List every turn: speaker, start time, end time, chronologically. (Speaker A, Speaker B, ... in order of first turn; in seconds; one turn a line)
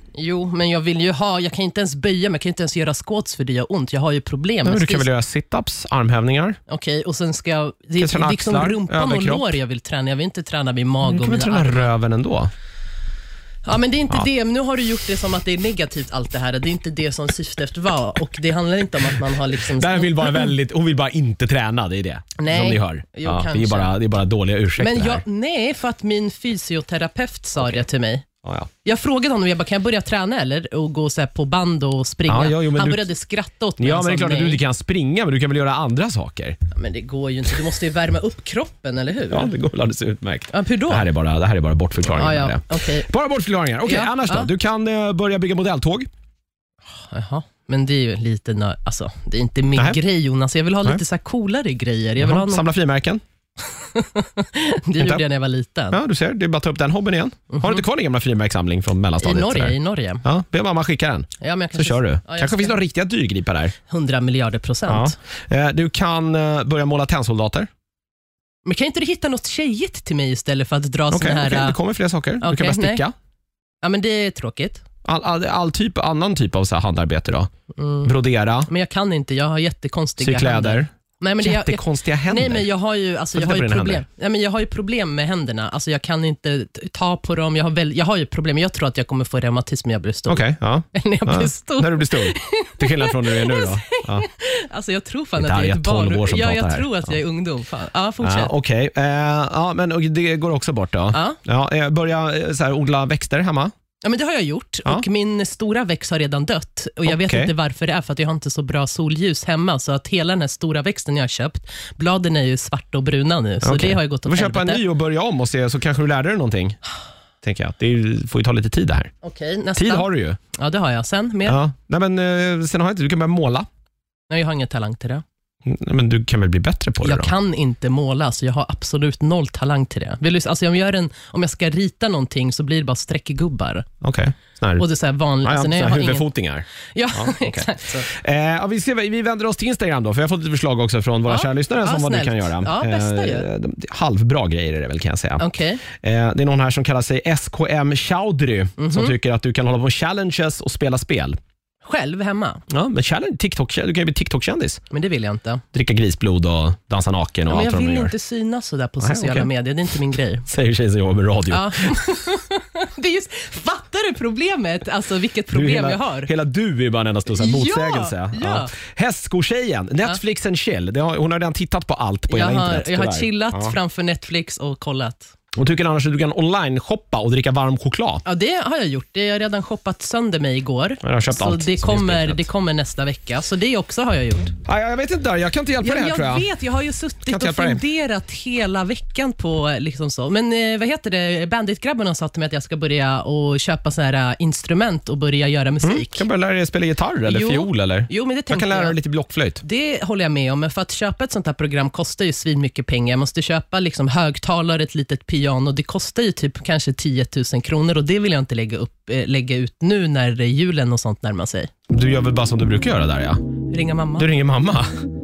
Speaker A: 0.2-5.1
Speaker B: 4.6-6.6
Speaker A: 6.7-11.9
Speaker B: 8.0-9.5
Speaker B: 11.0-12.5
Speaker A: 13.7-20.5
Speaker B: 19.5-25.2
Speaker A: 22.4-24.0
Speaker A: 24.8-28.2
Speaker B: 28.4-28.7
Speaker A: 28.8-34.6
Speaker B: 32.3-33.1
Speaker B: 33.8-36.6
Speaker A: 36.7-39.5
Speaker B: 39.3-46.1
Speaker A: 40.5-41.1
Speaker A: 42.1-43.1
Speaker A: 43.8-44.5
Speaker A: 47.0-52.6
Speaker B: 52.2-53.2
Speaker A: 53.7-56.0
Speaker B: 55.0-55.2
Speaker B: 55.9-63.7
Speaker A: 57.5-57.9
Speaker A: 59.2-60.2
Speaker A: 61.4-62.8
Speaker A: 63.9-65.2
Speaker B: 64.9-67.7
Speaker A: 68.7-71.8
Speaker B: 71.1-73.1
Speaker A: 72.4-73.0
Speaker A: 73.8-74.8
Speaker B: 75.0-77.5
Speaker A: 77.8-78.1
Speaker B: 78.0-78.7
Speaker A: 78.7-98.5
Speaker B: 80.2-80.9
Speaker B: 81.4-82.7
Speaker B: 83.3-84.0
Speaker B: 90.3-94.3
Speaker B: 95.4-97.2
Speaker B: 98.2-103.7
Speaker A: 101.1-101.4
Speaker A: 104.0-114.8
Speaker B: 107.0-107.5
Speaker B: 113.6-116.8
Speaker B: 117.4-119.1
Speaker A: 119.2-121.6
Speaker B: 119.8-120.4
Speaker B: 121.5-123.7
Speaker A: 124.3-125.2
Speaker B: 125.7-127.3
Speaker A: 127.0-133.9
Speaker B: 134.0-134.9
Speaker A: 134.8-136.3
Speaker B: 135.4-151.4
Speaker A: 136.9-138.1
Speaker A: 141.3-143.5
Speaker A: 145.4-145.8
Speaker A: 148.8-149.1
Speaker A: 151.8-152.6
Speaker B: 152.7-154.8
Speaker A: 154.9-155.6
Speaker B: 155.7-158.1
Speaker A: 157.5-160.5
Speaker B: 159.0-159.5
Speaker B: 160.5-162.0
Speaker A: 161.5-166.3
Speaker B: 165.5-173.8
Speaker A: 167.3-168.7
Speaker A: 172.3-175.3
Speaker B: 175.5-178.2
Speaker A: 178.2-184.5
Speaker B: 181.0-182.5
Speaker B: 184.7-186.5
Speaker A: 185.8-196.3
Speaker B: 187.3-187.8
Speaker B: 195.8-199.6
Speaker A: 197.2-199.0
Speaker A: 199.6-211.7
Speaker B: 211.9-213.4
Speaker A: 213.7-214.3
Speaker B: 214.2-214.9